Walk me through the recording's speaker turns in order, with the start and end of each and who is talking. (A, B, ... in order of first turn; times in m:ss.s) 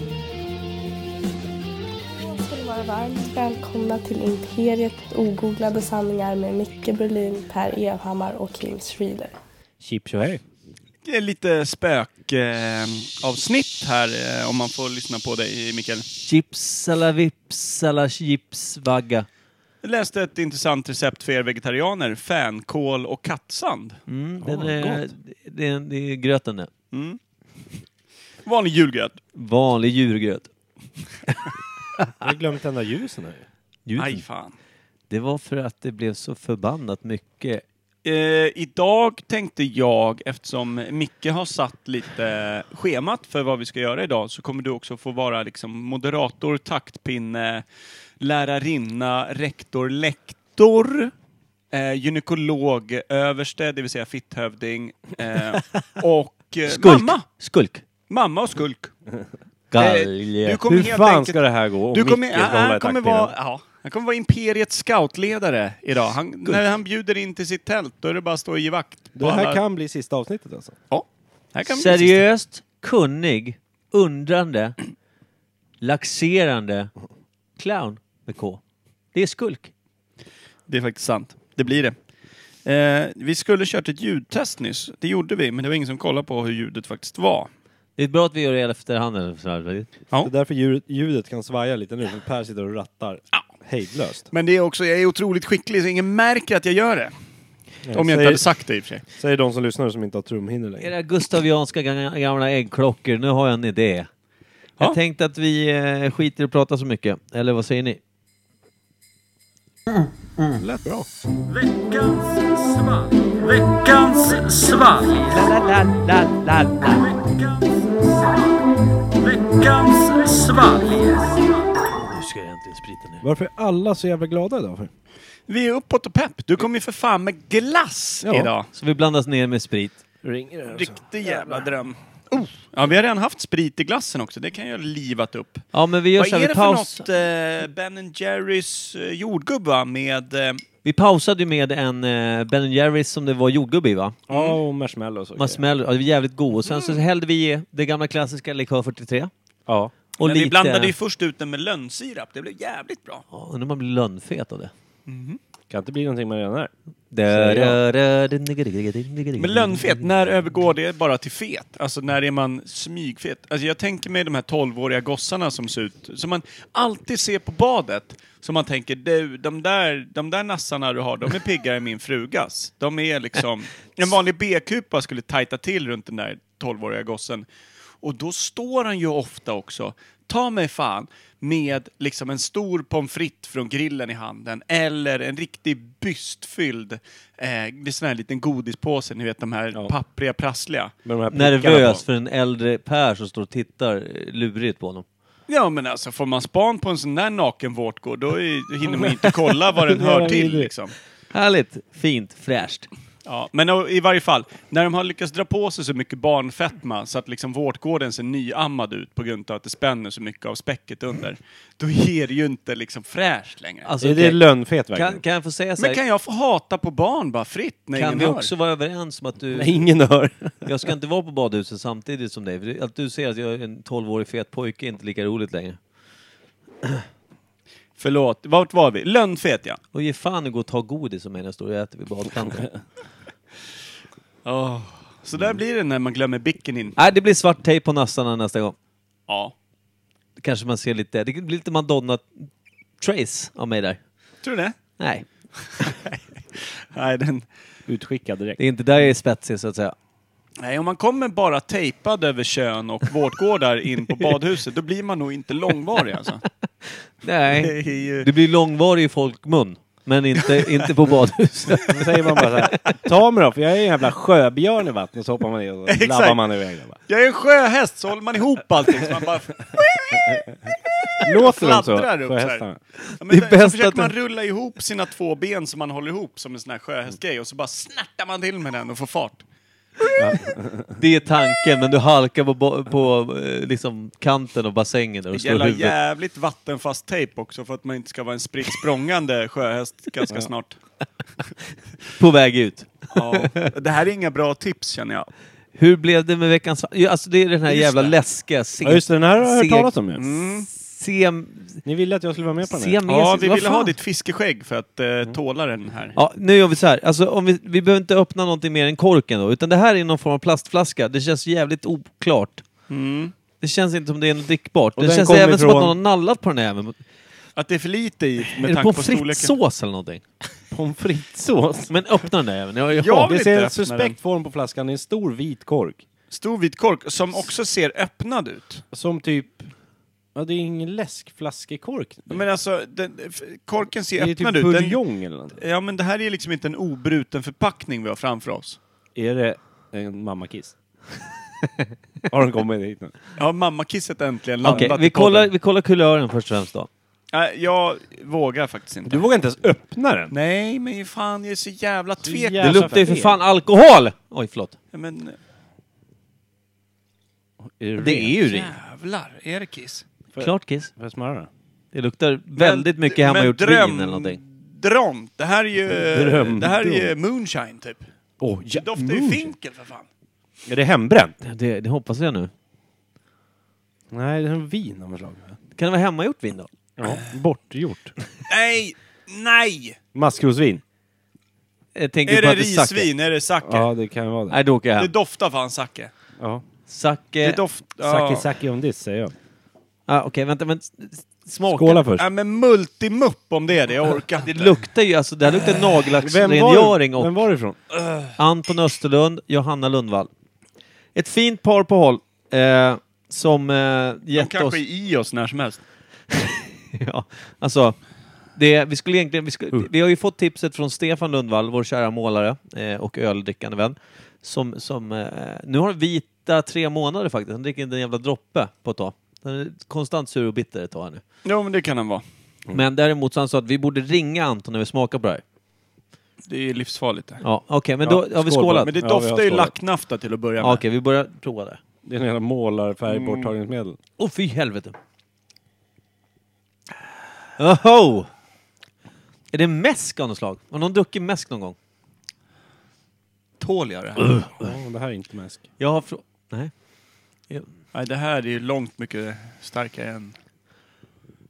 0:02.0-0:09.4 A
0:09.8-0:10.4 B
0:11.0-0:16.1 C
0:16.1-0:19.3 D
0:19.8-0:24.0 C
0:24.1-0:26.7 D
0:24.4-0:25.1 B
0:26.9-0:27.2 C
0:28.4-0:29.2 C
0:29.3-0:30.5 D
0:32.2-0:33.5 B
0:33.9-0:34.2 D
0:34.0-0:34.6 C
0:35.1-0:37.6 D
0:38.0-0:47.6 C
0:48.2-0:51.1 C
0:51.7-0:57.3 C
0:56.7-0:57.8 D
0:58.1-0:58.9 C
0:59.7-1:00.4 D
0:59.8-1:03.3 B
1:00.4-1:09.6 C
1:09.2-1:10.8 B
1:10.9-1:12.2 C
1:11.7-1:14.8 D
1:15.8-1:16.9 D
1:17.6-1:18.6 D
1:19.1-1:19.7 D
1:20.7-1:22.0 C
1:22.6-1:27.5 C
1:28.0-1:29.9 D
1:30.2-1:34.3 B
1:34.3-1:37.1 C
1:37.9-1:38.4 B
1:37.9-1:39.0 C
1:39.2-1:40.9 B
1:40.8-1:44.1 D
1:44.8-1:48.0 D
1:50.6-1:51.1 B
1:51.5-1:55.3 C
1:55.1-1:57.1 D
1:56.9-1:58.6 C
1:59.1-2:01.8 C
2:02.0-2:03.2 D
2:03.2-2:04.9 B
2:05.5-2:08.7 C
2:08.2-2:08.5 B
2:08.8-2:10.0 D
2:10.2-2:11.6 B
2:10.7-2:20.6 C
2:15.7-2:17.0 D
2:20.8-2:24.2 D
2:24.3-2:25.6 B
2:24.3-2:24.6 C
2:25.4-2:29.3 D
2:26.7-2:27.0 C
2:29.7-2:29.9 B
2:30.2-2:30.9 D
2:30.2-2:33.2 C
2:33.3-2:34.7 D
2:35.1-2:35.4 C
2:35.7-2:36.7 B
2:37.1-2:40.1 D
2:37.3-2:37.8 B
2:39.4-2:57.5 C
2:58.0-3:10.9 C
3:11.1-3:12.0 B
3:11.3-3:15.0 D
3:15.5-3:20.9 C
3:19.9-3:20.7 B
3:21.3-3:22.9 D
3:23.2-3:33.9 C
3:33.8-3:36.0 D
3:34.0-3:35.2 B
3:35.8-3:38.5 C
3:37.9-3:39.8 D
3:39.5-3:40.7 B
3:40.6-3:45.8 D
3:48.0-3:49.8 C
3:49.9-3:52.7 D
3:54.4-3:57.0 C
3:57.0-3:58.8 D
3:59.3-3:59.5 C
4:00.4-4:02.5 D
4:03.0-4:04.0 D
4:04.4-4:04.8 C
4:05.0-4:05.2 D
4:05.8-4:07.5 C
4:07.9-4:08.6 B
4:08.6-4:10.0 D
4:10.6-4:16.4 C
4:16.9-4:22.9 D
4:17.5-4:18.3 C
4:20.4-4:20.8 C
4:21.8-4:27.0 B
4:25.9-4:26.4 C
4:27.1-4:30.5 C
4:30.1-4:30.4 B
4:31.0-4:32.6 C
4:31.2-4:32.8 B
4:33.0-4:34.1 D
4:33.2-4:39.4 C
4:40.2-4:41.0 B
4:41.0-4:45.9 D
4:45.3-4:50.8 C
4:52.2-4:53.7 D
4:53.1-4:55.3 C
4:55.8-4:59.9 D
4:57.7-4:58.2 C
4:58.8-5:00.4 B
5:00.2-5:00.7 C
5:00.7-5:01.8 D
5:01.8-5:03.0 B
5:02.7-5:03.9 D
5:03.1-5:06.2 C
5:06.2-5:12.6 D
5:12.9-5:13.3 C
5:13.6-5:17.0 D
5:15.0-5:16.0 B
5:17.6-5:19.5 C
5:18.5-5:20.2 D
5:20.7-5:21.9 B
5:21.9-5:23.3 D
5:23.0-5:24.2 C
5:23.0-5:26.0 B
5:26.3-5:28.8 C
5:28.9-5:29.7 B
5:30.4-5:32.4 B
5:32.3-5:35.0 C
5:34.2-5:35.6 B
5:35.6-5:38.8 C
5:39.2-5:40.8 B
5:42.3-5:43.2 B
5:43.4-5:45.5 C
5:44.6-5:46.9 D
5:44.7-5:44.9 B
5:47.3-5:49.2 C
5:49.1-5:50.3 B
5:50.3-5:52.9 C
5:52.2-5:53.4 B
5:52.6-5:54.8 D
5:54.9-5:55.4 C
5:57.7-5:58.7 B
5:58.0-5:58.5 D
5:58.5-6:00.0 C
6:00.3-6:01.5 B
6:00.4-6:00.9 D
6:01.9-6:04.4 D
6:02.6-6:08.0 C
6:05.9-6:07.2 B
6:08.4-6:09.5 B
6:08.7-6:10.1 C
6:10.6-6:11.4 B
6:11.4-6:12.5 D
6:14.1-6:15.6 B
6:15.8-6:16.7 D
6:17.0-6:18.1 B
6:18.5-6:20.0 C
6:20.1-6:20.8 B
6:22.0-6:23.1 D
6:22.3-6:23.9 C
6:23.6-6:24.6 B
6:24.5-6:25.1 D
6:25.0-6:26.1 C
6:26.4-6:26.6 B
6:26.9-6:27.6 D
6:27.4-6:28.5 C
6:28.0-6:29.4 B
6:30.1-6:32.0 D
6:31.7-6:32.3 B
6:32.2-6:34.9 C
6:34.4-6:37.4 D
6:36.2-6:37.8 B
6:38.4-6:40.3 D
6:41.2-6:44.8 D
6:44.4-6:45.8 C
6:46.3-6:48.0 D
6:48.6-7:01.2 D
7:01.4-7:02.2 C
7:02.7-7:05.4 D
7:06.5-7:07.4 C
7:07.4-7:08.9 D
7:08.0-7:09.7 B
7:08.8-7:10.8 C
7:10.6-7:11.8 D
7:12.0-7:14.0 B
7:14.2-7:15.0 D
7:17.6-7:18.3 D
7:19.5-7:21.8 D
7:23.6-7:24.4 C
7:24.6-7:25.6 B
7:25.8-7:26.7 D
7:27.9-7:30.4 C